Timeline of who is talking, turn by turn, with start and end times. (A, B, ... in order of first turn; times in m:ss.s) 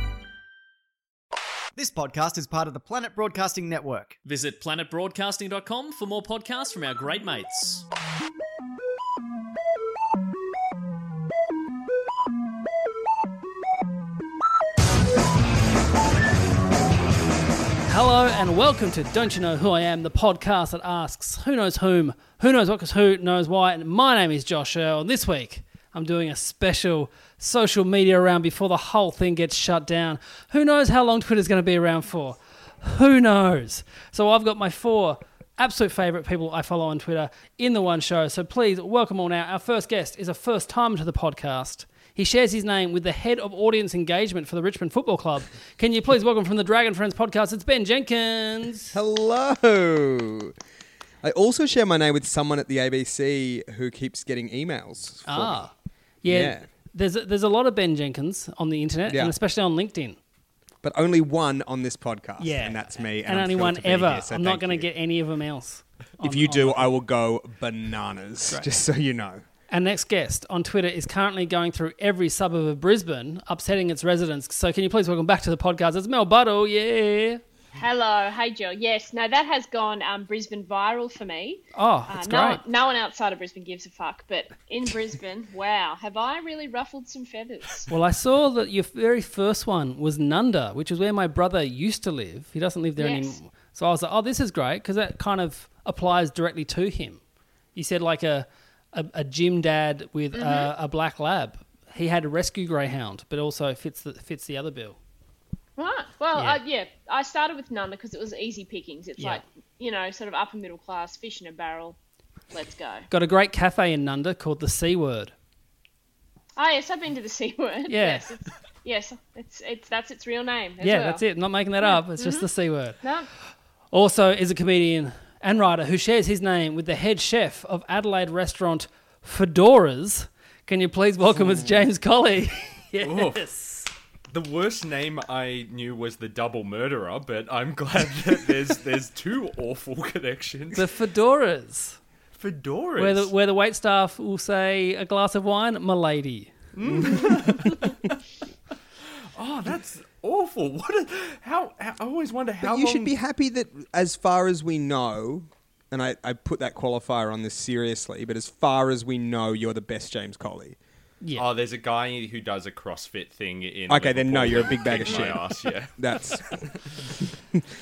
0:01.8-0:04.2 A
0:04.2-0:07.9 B
0:17.9-0:49.0 C
0:48.9-0:50.6 D
0:51.2-0:55.6 D
0:55.3-1:00.2 C
0:56.2-0:56.7 D
0:59.1-0:59.3 D
1:00.8-1:04.9 D
1:02.4-1:06.9 C
1:06.2-1:09.4 D
1:09.7-1:17.4 C
1:17.8-1:27.9 E
1:21.8-1:22.6 C
1:27.9-1:37.2 C
1:33.0-1:33.4 E
1:37.7-1:45.0 C
1:40.3-1:40.7 E
1:45.8-1:52.0 E
1:52.5-1:53.1 E
1:53.1-1:55.3 C
1:56.6-2:01.2 E
1:57.9-1:58.3 C
2:00.8-2:03.0 C
2:01.8-2:02.5 E
2:03.0-2:03.3 E
2:03.9-2:13.9 C
2:11.4-2:11.7 D
2:13.0-2:13.4 F
2:14.3-2:20.8 F
2:20.7-2:22.0 C
2:22.4-2:23.3 F
2:23.0-2:26.5 C
2:26.7-2:27.9 F
2:26.9-2:27.2 D
2:29.3-2:33.1 F
2:32.6-2:40.8 D
2:41.4-2:46.4 F
2:43.9-2:45.4 D
2:46.0-2:46.7 D